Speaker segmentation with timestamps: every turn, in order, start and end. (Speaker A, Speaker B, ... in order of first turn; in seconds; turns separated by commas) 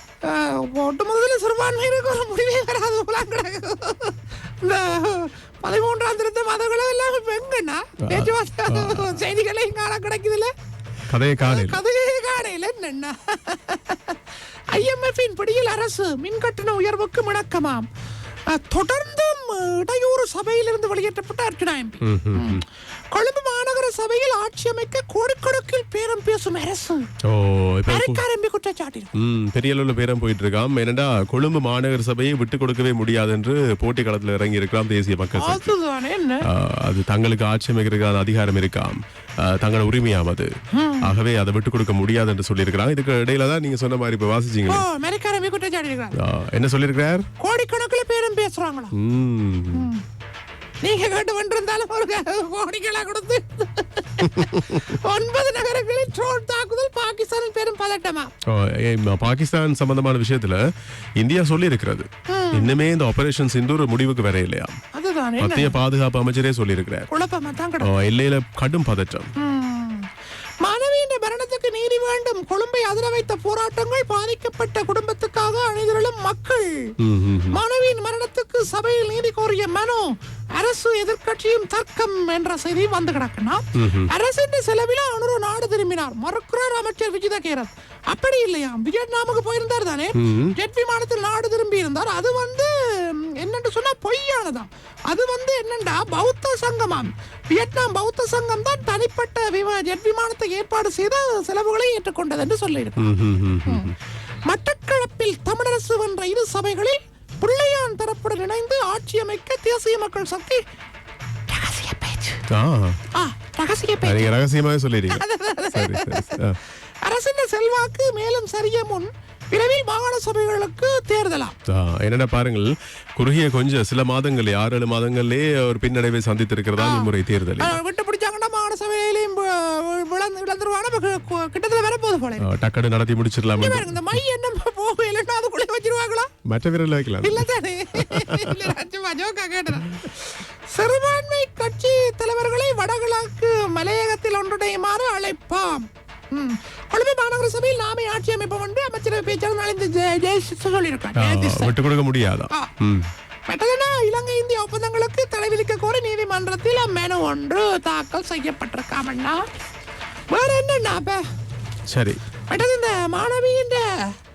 Speaker A: 0.2-10.5, Speaker B: 8.1-9.2, Speaker B: 11.1-11.8, Speaker A: 11.4-14.2, Speaker A: 14.7-17.9, Speaker A: 18.5-27.0, Speaker B: 22.0-22.6, Speaker B: 27.2-28.2, Speaker A: 27.9-29.1, Speaker B: 29.1-35.8, Speaker A: 35.3-36.5, Speaker B: 36.4-40.5, Speaker A: 40.7-41.1, Speaker B: 41.0-44.8, Speaker A: 44.7-46.2, Speaker B: 46.1-47.3, Speaker A: 47.4-48.9, Speaker B: 48.9-49.9, Speaker A: 49.7-50.0, Speaker A: 50.8-58.3, Speaker B: 54.2-54.9, Speaker B: 58.5-60.6, Speaker B: 61.2-64.8, Speaker A: 62.3-62.7, Speaker A: 64.9-65.8, Speaker B: 65.4-67.1, Speaker A: 67.1-67.9, Speaker B: 67.8-69.3, Speaker A: 69.4-70.1, Speaker A: 70.6-76.9, Speaker B: 77.0-77.6, Speaker A: 77.5-103.1, Speaker B: 83.8-84.1, Speaker B: 90.1-90.5, Speaker B: 103.0-103.9, Speaker A: 104.5-110.6, Speaker A: 111.5-112.4, Speaker B: 112.5-113.0, Speaker A: 113.1-114.3, Speaker B: 114.0-116.6, Speaker A: 115.1-116.5, Speaker A: 117.0-121.5, Speaker B: 121.7-127.8, Speaker A: 126.8-132.5, Speaker B: 132.4-134.2, Speaker A: 133.6-136.3, Speaker B: 136.4-138.7, Speaker A: 137.2-151.7, Speaker B: 151.1-153.1, Speaker A: 153.5-159.4, Speaker A: 160.3-161.2, Speaker B: 161.9-162.2, Speaker A: 162.5-163.8